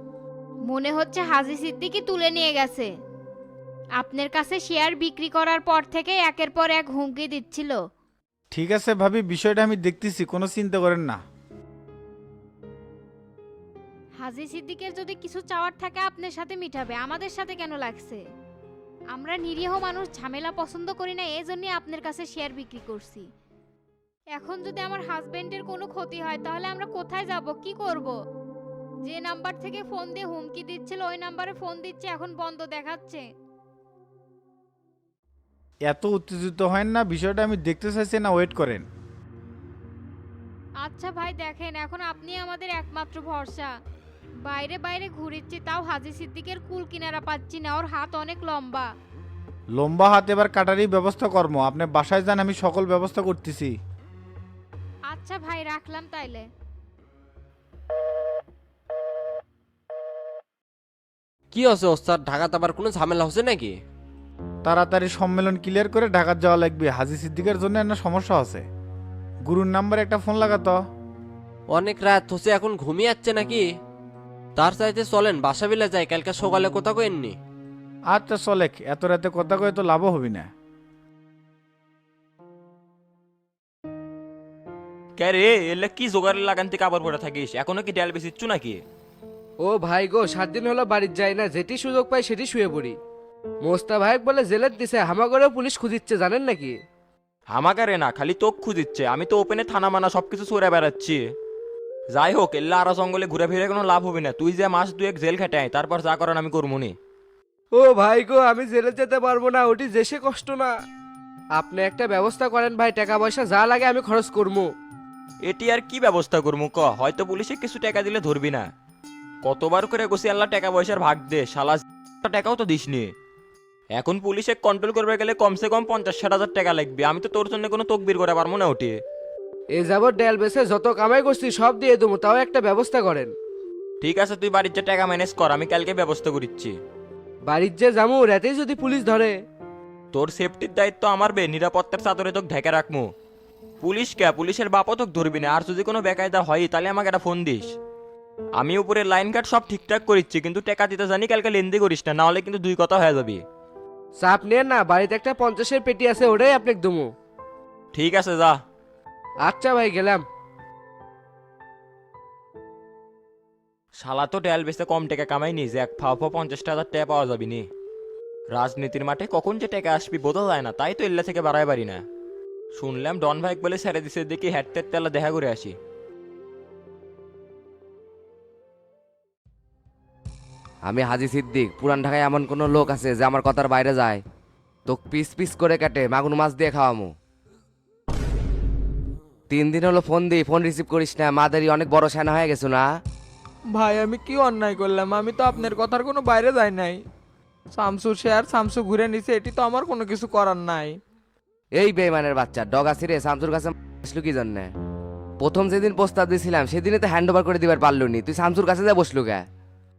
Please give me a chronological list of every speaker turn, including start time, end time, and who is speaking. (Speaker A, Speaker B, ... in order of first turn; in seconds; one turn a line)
Speaker A: 0.7-2.9
Speaker A: 4.0-7.8
Speaker B: 8.5-11.2
Speaker A: 14.2-18.2
Speaker A: 19.1-23.3
Speaker A: 24.3-28.2
Speaker A: 29.1-33.3
Speaker B: 35.9-38.9
Speaker A: 40.8-43.7
Speaker A: 44.5-48.9
Speaker B: 49.8-53.7
Speaker A: 55.1-56.5
Speaker C: 61.5-63.7
Speaker B: 64.7-68.7
Speaker B: 69.5-70.8
Speaker C: 71.7-73.6
Speaker C: 74.6-77.4
Speaker B: 78.1-80.5
Speaker D: 85.2-88.8
Speaker E: 89.6-93.0
Speaker E: 93.6-96.8
Speaker D: 97.5-101.2
Speaker D: 102.1-106.9
Speaker E: 107.7-110.7
Speaker E: 111.5-114.7
Speaker D: 115.4-118.7
Speaker D: 119.4-123.1
Speaker D: 124.0-129.0
Speaker E: 129.7-133.3
Speaker D: 134.0-136.8
Speaker E: 137.4-139.4
Speaker D: 140.1-143.1
Speaker D: 143.8-147.7
Speaker D: 148.6-153.4
Speaker E: 154.2-157.1
Speaker D: 157.9-158.6
Speaker E: 159.4-160.3
Speaker D: 164.0-167.7
Speaker D: 168.5-172.0
Speaker D: 172.8-175.8
Speaker F: 180.8-184.2
Speaker F: 184.9-187.1
Speaker F: 189.5-192.9
Speaker G: 193.7-197.0
Speaker G: 197.7-201.0
Speaker F: 201.7-204.7
Speaker F: 205.4-209.5